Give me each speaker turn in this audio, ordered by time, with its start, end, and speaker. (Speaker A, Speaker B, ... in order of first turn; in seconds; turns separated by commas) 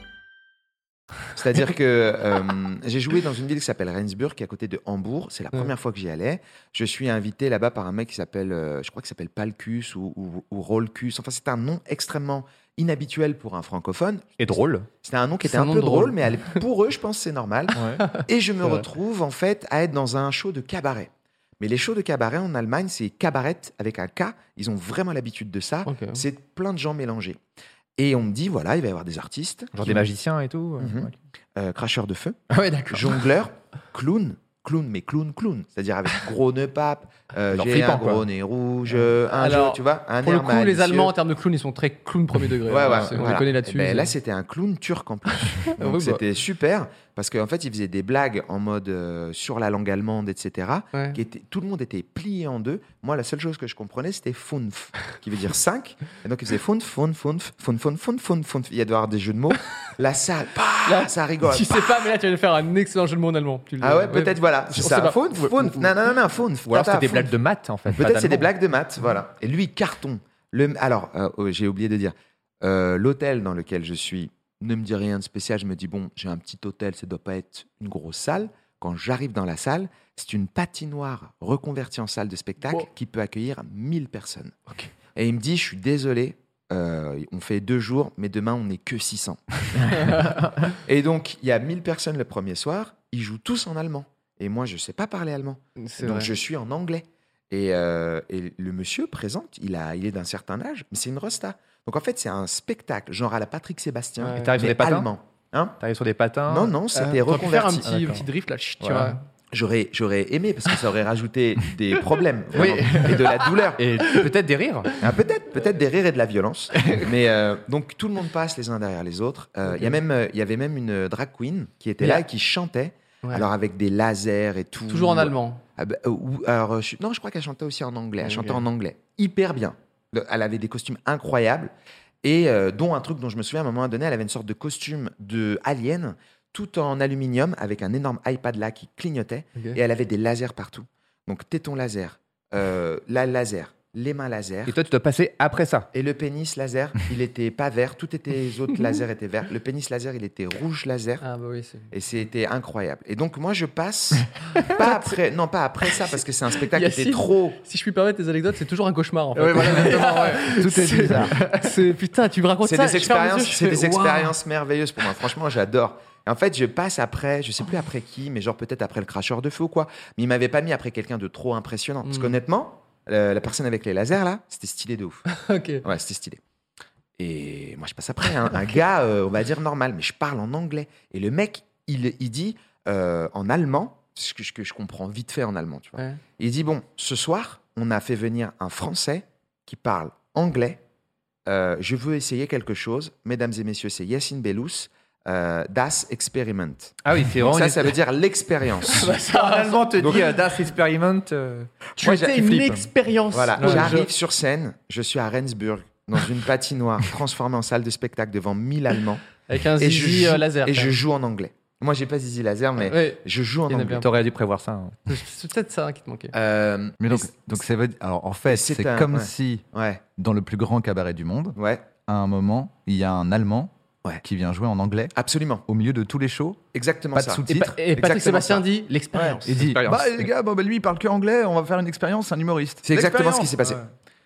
Speaker A: 1.3-14.3, Speaker B: 14.4-14.9, Speaker A: 15.0-27.4, Speaker C: 15.4-16.6, Speaker B: 17.8-18.0, Speaker C: 18.1-18.8, Speaker C: 25.9-26.2, Speaker A: 28.0-30.0, Speaker B: 29.7-31.1, Speaker A: 30.8-32.4, Speaker B: 32.5-33.2, Speaker A: 32.9-41.1, Speaker B: 37.5-38.2, Speaker C: 39.3-44.1, Speaker A: 42.7-62.1, Speaker B: 42.8-43.2, Speaker C: 45.6-46.2, Speaker C: 50.9-51.2, Speaker C: 60.9-65.9, Speaker A: 63.8-67.3, Speaker B: 66.7-68.5, Speaker A: 67.9-105.8, Speaker C: 95.8-96.3, Speaker C: 104.2-104.5, Speaker B: 104.3-105.1, Speaker B: 105.8-106.7, Speaker A: 106.5-107.9, Speaker C: 106.9-109.2, Speaker B: 107.9-108.2, Speaker B: 108.8-109.2, Speaker A: 109.5-113.8, Speaker B: 112.5-113.2, Speaker B: 113.8-114.9, Speaker A: 115.0-131.7, Speaker C: 119.7-120.0, Speaker C: 124.9-125.6, Speaker C: 128.2-128.6, Speaker A: 132.2-144.7, Speaker B: 144.7-145.9, Speaker A: 145.9-151.2, Speaker C: 151.2-151.9, Speaker A: 151.9-157.6, Speaker C: 154.8-155.1, Speaker C: 156.7-164.3, Speaker B: 159.3-161.7, Speaker D: 160.6-161.3, Speaker A: 162.6-176.4, Speaker C: 172.0-172.3, Speaker C: 175.3-175.8, Speaker A: 177.2-190.8, Speaker A: 191.4-199.2, Speaker B: 197.0-198.0, Speaker C: 199.0-199.9, Speaker B: 199.0-201.7, Speaker A: 200.0-200.3, Speaker C: 202.0-204.1, Speaker A: 202.0-209.2, Speaker B: 203.6-203.9, Speaker C: 209.5-210.9, Speaker A: 209.8-214.1, Speaker C: 212.8-214.1, Speaker B: 214.0-215.0, Speaker C: 215.1-216.3, Speaker A: 216.3-217.5, Speaker D: 217.0-219.6, Speaker A: 218.5-220.0, Speaker D: 220.2-223.7, Speaker A: 221.6-221.8, Speaker D: 224.2-225.1, Speaker A: 225.1-225.6, Speaker D: 225.7-226.6, Speaker A: 226.7-229.4, Speaker D: 227.1-227.7, Speaker C: 227.5-229.5, Speaker D: 229.4-233.8, Speaker B: 229.5-230.2, Speaker A: 232.8-233.8